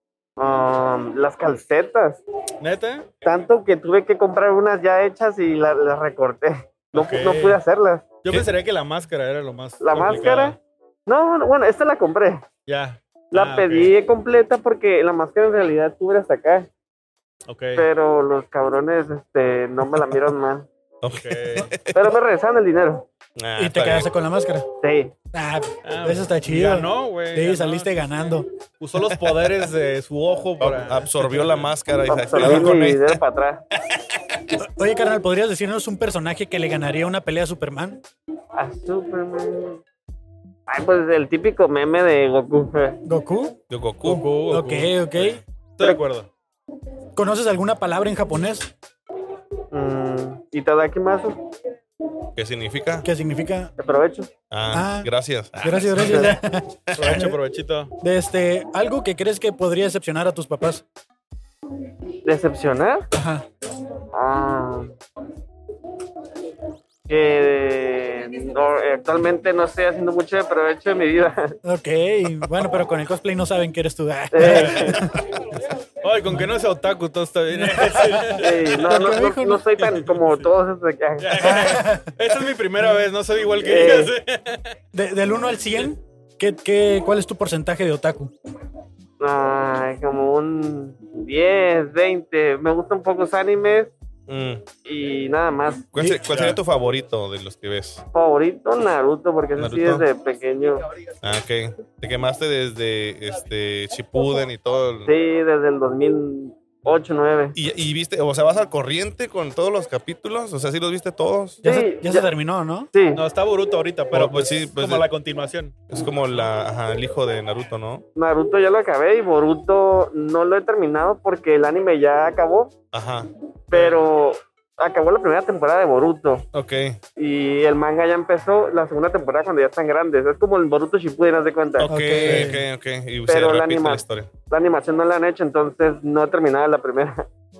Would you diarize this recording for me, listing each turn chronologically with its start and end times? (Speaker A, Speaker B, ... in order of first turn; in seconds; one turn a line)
Speaker A: 0.4-2.2
Speaker B: 2.6-3.1
Speaker A: 3.2-8.2
Speaker B: 6.9-7.6
Speaker B: 8.2-10.6
Speaker A: 9.8-12.4
Speaker B: 12.7-13.9
Speaker A: 13.3-16.7
Speaker B: 17.5-17.9
Speaker A: 17.8-20.7
Speaker C: 21.0-22.2
Speaker B: 21.1-21.7
Speaker A: 21.9-23.1
Speaker C: 23.4-24.1
Speaker D: 23.6-24.7
Speaker A: 24.8-25.1
Speaker D: 25.3-28.5
Speaker B: 25.9-31.7
Speaker C: 30.6-33.2
Speaker A: 32.1-33.6
Speaker C: 34.1-34.5
Speaker D: 34.6-38.0
Speaker A: 38.5-39.8
Speaker A: 40.7-43.0
Speaker D: 43.1-45.4
Speaker C: 43.7-44.2
Speaker B: 44.1-46.3
Speaker D: 47.2-48.7
Speaker A: 49.7-51.4
Speaker C: 52.4-53.1
Speaker D: 53.0-53.7
Speaker A: 53.8-54.3
Speaker C: 54.5-56.4
Speaker D: 54.7-55.1
Speaker D: 55.6-57.3
Speaker A: 56.0-56.3
Speaker C: 56.9-57.2
Speaker B: 57.0-58.0
Speaker D: 58.0-60.8
Speaker A: 62.2-63.1
Speaker D: 63.1-63.5
Speaker A: 64.1-65.0
Speaker A: 67.1-71.6
Speaker D: 71.7-75.2
Speaker A: 74.3-75.0
Speaker B: 74.5-74.9
Speaker B: 76.0-78.8
Speaker D: 77.6-79.8
Speaker A: 78.4-81.7
Speaker B: 80.0-80.5
Speaker B: 81.2-84.8
Speaker D: 81.4-82.1
Speaker A: 83.6-84.1
Speaker D: 84.9-88.3
Speaker A: 89.2-93.9
Speaker C: 94.3-94.7
Speaker A: 94.8-95.9
Speaker C: 95.9-98.0
Speaker D: 96.0-96.2
Speaker B: 96.3-96.6
Speaker A: 98.1-100.9
Speaker C: 99.6-100.1
Speaker C: 101.2-105.1
Speaker A: 105.1-107.6
Speaker C: 107.5-111.6
Speaker A: 111.6-112.3
Speaker D: 111.6-112.9
Speaker A: 112.9-113.2
Speaker B: 113.1-115.8
Speaker C: 114.1-115.1
Speaker C: 115.9-118.0
Speaker A: 118.2-122.8
Speaker C: 122.9-123.3
Speaker A: 123.7-126.5
Speaker B: 123.7-124.0
Speaker C: 126.5-127.0
Speaker A: 127.2-132.4
Speaker C: 131.8-134.3
Speaker D: 131.8-132.6
Speaker A: 133.3-137.3